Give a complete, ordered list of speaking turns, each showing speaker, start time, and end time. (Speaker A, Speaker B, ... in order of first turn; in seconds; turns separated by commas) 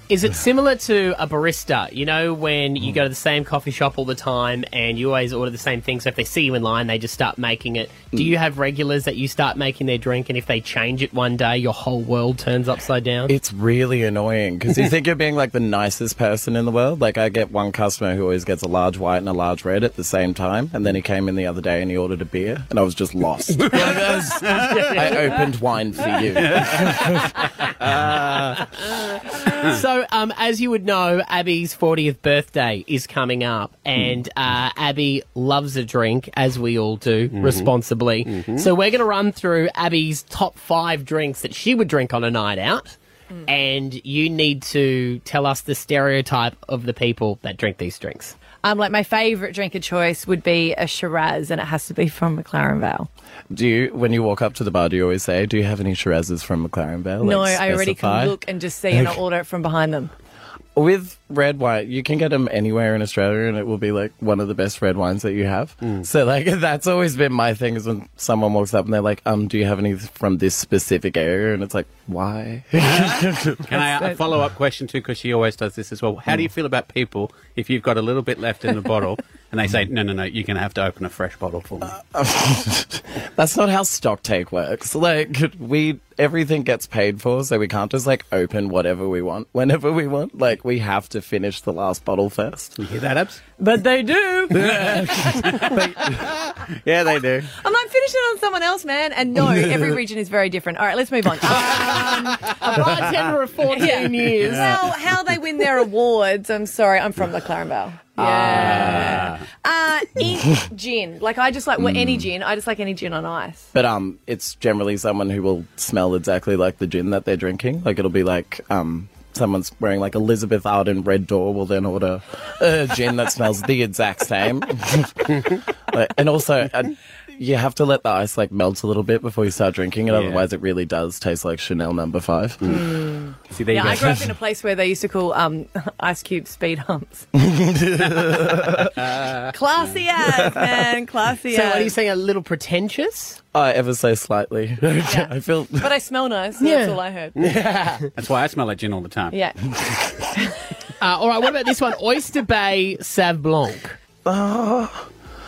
Speaker A: 0.1-13.3, Speaker B: 13.3-28.6, Speaker C: 23.6-25.3, Speaker C: 26.3-27.1, Speaker C: 27.8-28.3, Speaker A: 29.3-48.4, Speaker C: 37.3-37.7, Speaker C: 38.3-38.7, Speaker D: 48.6-53.1, Speaker B: 53.5-58.4, Speaker D: 57.2-60.1, Speaker B: 60.7-73.7, Speaker C: 72.8-81.9, Speaker B: 81.9-92.8, Speaker C: 92.8-93.4, Speaker D: 93.6-95.7, Speaker B: 94.5-97.5, Speaker C: 94.6-95.7, Speaker D: 97.5-102.9, Speaker A: 102.4-104.8, Speaker D: 103.7-113.7, Speaker B: 108.2-108.7, Speaker C: 108.5-109.4, Speaker B: 111.8-112.2, Speaker B: 113.7-132.7, Speaker C: 130.1-130.4, Speaker D: 132.7-137.3, Speaker C: 133.5-134.3, Speaker B: 137.3-138.9, Speaker C: 138.8-139.5, Speaker D: 139.5-141.9, Speaker A: 141.5-143.4, Speaker B: 143.5-145.9, Speaker D: 145.0-147.4, Speaker A: 146.6-147.0, Speaker C: 147.4-149.4, Speaker D: 149.3-149.6, Speaker A: 151.0-154.0, Speaker B: 154.2-155.1